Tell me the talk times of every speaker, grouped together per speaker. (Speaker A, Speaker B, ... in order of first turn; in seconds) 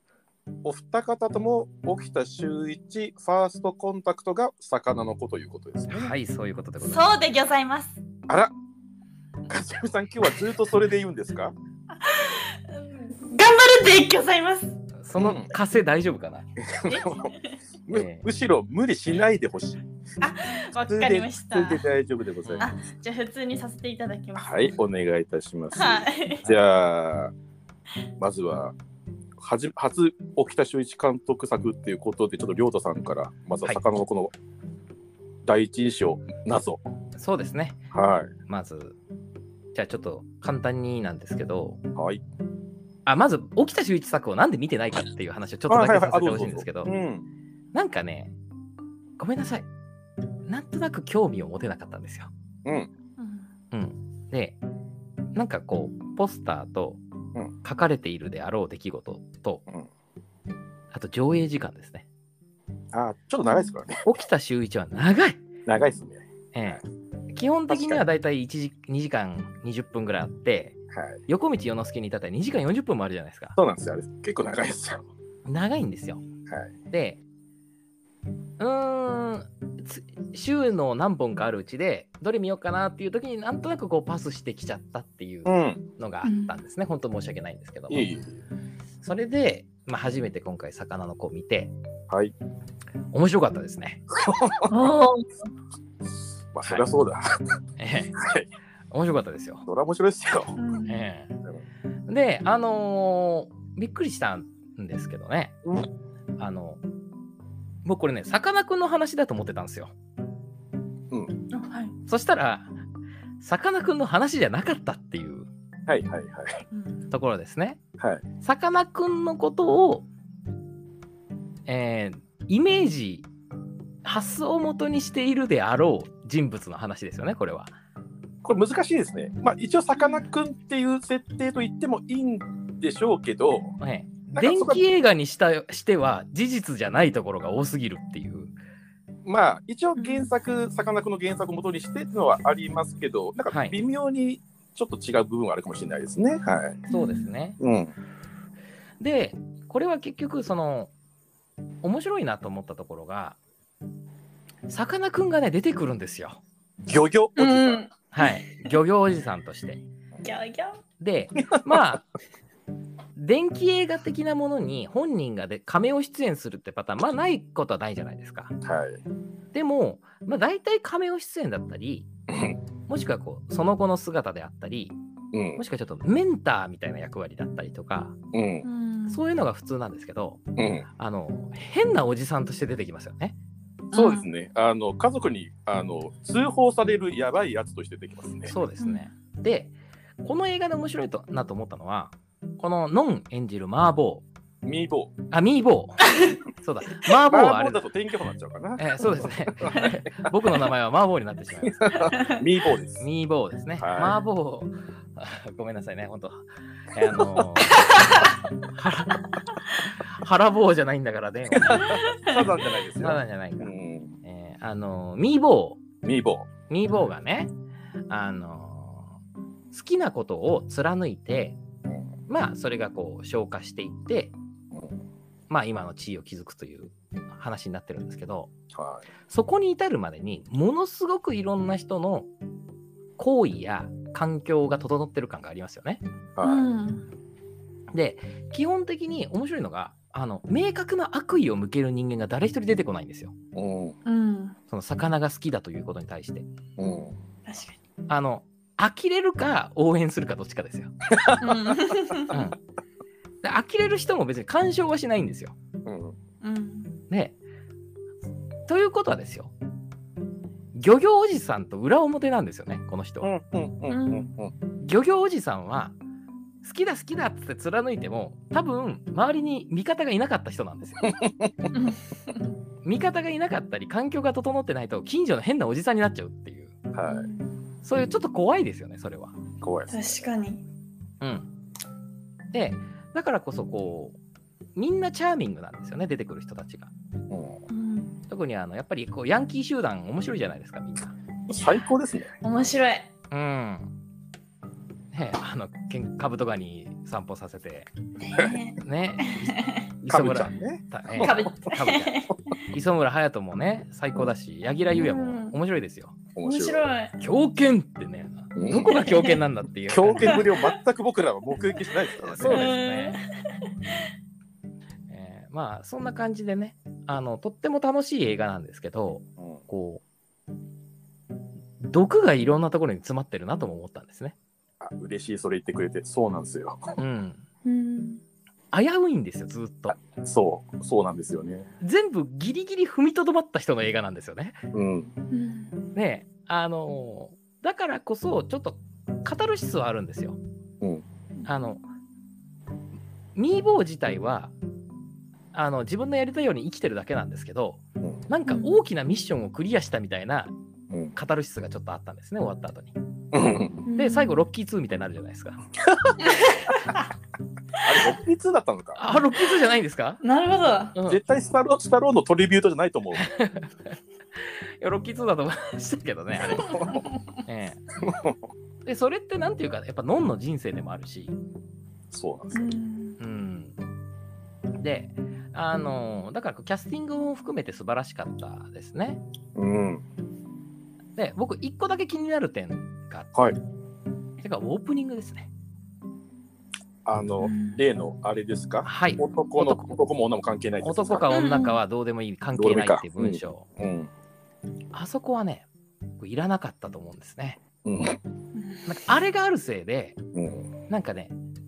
Speaker A: 0.6-6.1, 8.3-8.5, 9.5-11.5, 15.2-15.5, 16.6-17.3, 17.9-19.9, 20.8-22.7, 24.4-27.3, 28.2-28.8, 29.4-34.3, 35.5-36.9, 37.9-38.3, 42.0-42.2, 45.7-47.3, 52.6-52.9, 62.9-64.0, 65.7-66.8, 67.7-68.0, 70.9-71.2, 73.6-75.0, 85.5-85.8, 87.9-88.4, 94.2-94.7, 96.5-97.6, 98.2-98.5, 99.7-100.5, 111.1-111.4, 115.9-116.6, 118.0-118.2, 128.4-133.8, 134.3-134.8, 139.2-146.8, 147.6-147.9, 156.9-157.8, 168.6-169.0, 172.3-172.6, 175.3-175.6, 178.3-178.7, 180.6-180.9, 183.9-188.5, 194.6-195.2, 197.3-200.1, 201.6-203.1, 203.8-204.2, 207.0-207.5, 211.5-214.1, 216.0-216.5, 224.7-225.0, 228.7-229.1, 236.4-236.7, 243.6-243.9, 246.8-247.2, 251.1-252.3, 255.8-256.2, 263.2-264.5, 271.1-271.7, 276.9-277.3, 279.6-280.1, 287.3-287.6, 291.5-292.3, 300.1-301.5, 306.4-306.9, 308.6-309.1, 309.9-312.8, 324.8-327.0, 330.1-331.7, 334.7-335.1, 353.3-353.8, 355.9-356.1, 357.8-359.0, 361.1-363.3, 366.5-367.0, 368.0-368.4, 372.1-372.8, 379.6-380.0, 387.1-391.3, 392.6-394.1, 397.9-398.2, 400.4-400.7
Speaker B: 5.9-7.1, 15.0-16.5, 17.9-18.2, 37.2-37.8, 38.5-39.0, 39.7-41.8, 43.1-46.9, 47.7-48.3, 49.2-49.6, 50.5-52.3, 53.7-54.6, 55.4-57.0, 57.6-59.6, 60.9-62.0, 64.0-65.4, 66.5-66.8, 67.3-73.6, 75.5-76.2, 76.9-77.2, 78.6-88.1, 89.0-91.7, 93.1-94.0, 97.8-98.2, 98.9-99.6, 100.9-101.3, 102.1-105.5, 106.4-106.8, 107.8-109.9, 112.1-112.7, 113.4-115.5, 117.1-117.8, 118.4-120.1, 121.7-123.3, 124.0-127.7, 133.8-138.5, 143.5-143.8, 146.9-147.6, 149.0-150.9, 151.8-153.4, 154.7-156.4, 158.1-159.8, 161.0-162.0, 163.2-168.6, 169.5-172.1, 172.9-174.9, 175.6-178.2, 179.1-180.4, 181.0-183.3, 188.5-194.2, 195.3-197.8, 198.8-202.1, 203.0-212.0, 213.0-213.7, 214.2-215.8, 216.7-217.5, 218.1-219.1, 219.7-221.6, 222.3-224.3, 225.5-228.5, 229.3-232.3, 233.2-236.0, 237.9-243.3, 244.7-246.4, 248.1-251.3, 252.3-252.6, 253.4-255.6, 257.1-257.4, 258.7-259.5, 260.8-263.3, 264.8-266.0, 266.6-271.1, 272.8-276.8, 277.8-279.4, 281.2-281.5, 282.5-284.2, 284.8-286.9, 288.3-291.1, 293.3-293.9, 295.1-297.9, 298.8-306.2, 307.2-310.5, 312.2-313.2, 315.1-320.0, 321.8-324.4, 327.0-327.4, 328.7-330.0, 331.8-334.6, 335.9-340.4, 341.5-341.8, 343.4-344.5, 345.5-350.5, 351.1-352.9, 354.0-355.6, 359.0-360.2, 360.9-361.2, 363.1-367.8, 368.9-371.4, 373.2-373.8, 374.8-379.2, 381.2-383.3, 384.4-385.5, 388.8-389.9, 390.8-393.7, 394.9-395.6, 396.2-397.6, 398.9-400.2, 400.9-401.3
Speaker C: 6.8-8.0, 12.0-14.8, 16.9-17.5, 20.2-21.9, 22.6-24.8, 25.7-26.5, 53.2-53.5, 86.2-86.5, 94.7-95.3, 100.6-101.0, 111.5-111.9, 116.7-117.1, 140.0-140.3, 146.9-147.3, 157.4-158.7, 160.2-160.8, 178.6-179.2, 183.9-184.3, 188.8-189.1, 211.8-212.3, 236.4-237.1, 244.1-244.6, 247.5-247.8, 251.4-252.3, 256.4-256.9, 263.9-264.3, 271.7-272.5, 277.1-277.5, 279.9-280.6, 287.7-288.2, 292.4-293.1, 298.2-299.9, 301.2-302.6, 304.9-305.6, 306.4-307.2, 309.0-309.4, 310.2-310.8, 312.4-313.7, 327.6-328.2, 335.3-335.8, 348.5-348.8, 353.9-354.5, 356.2-357.0, 360.2-361.0, 372.5-373.2, 387.4-387.8, 391.3-391.8, 398.6-398.9